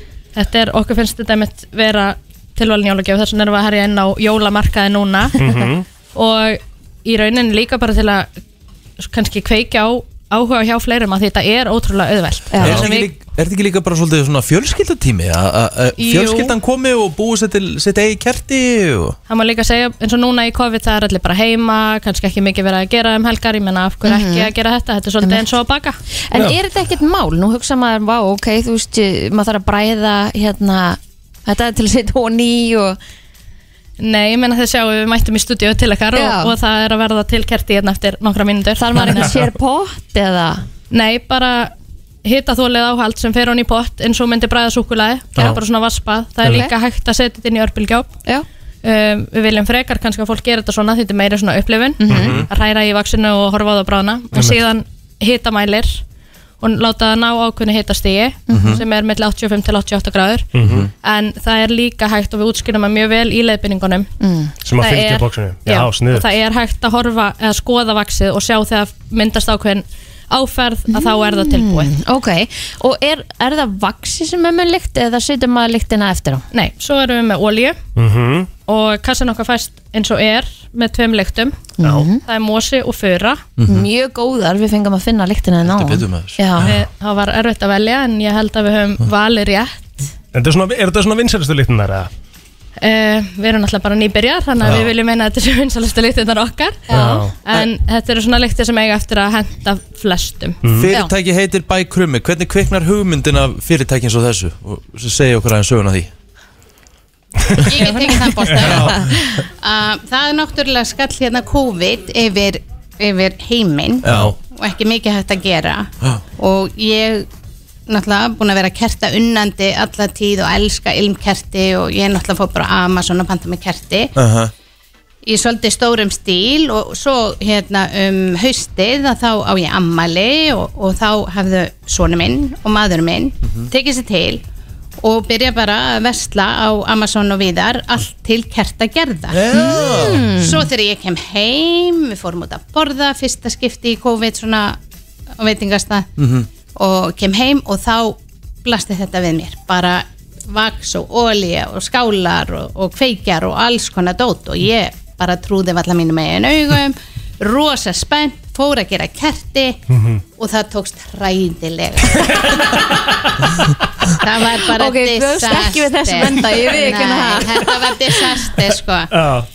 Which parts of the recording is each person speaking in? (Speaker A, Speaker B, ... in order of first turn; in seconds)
Speaker A: 0.3-5.5, 6.1-8.3, 9.0-13.1, 16.0-16.5, 19.3-26.0, 34.0-39.4, 40.9-41.7, 42.2-48.1, 48.8-56.0, 56.6-60.5, 61.0-64.1, 64.8-71.9, 76.5-77.8, 78.7-83.5, 86.7-90.1, 92.8-100.6
Speaker B: 5.4-5.8, 12.6-12.9, 52.1-52.4, 60.5-60.9, 64.6-66.3, 78.0-78.5, 90.3-92.1, 96.9-97.3, 100.6-100.9, 108.5-108.9, 114.0-114.3, 159.9-160.2, 162.3-162.6, 169.1-169.5
Speaker C: 12.5-12.8, 24.0-24.5, 26.3-33.0, 36.1-36.5, 38.8-40.6, 52.0-52.3, 58.5-58.8, 64.2-64.5, 70.9-76.4, 81.8-82.2, 83.7-86.7, 96.9-97.2, 139.5-140.6, 164.6-167.7
Speaker D: 12.6-19.2, 52.1-52.5, 58.5-58.8, 60.6-60.9, 83.6-83.9, 85.6-86.7, 100.7-106.1, 108.6-109.0, 114.0-114.3, 124.2-124.5, 139.3-140.4, 146.2-146.5
Speaker E: 107.6-117.2, 117.9-124.1, 125.2-134.4, 135.0-144.8, 145.4-146.1, 146.7-159.8, 160.4-162.9, 164.2-169.1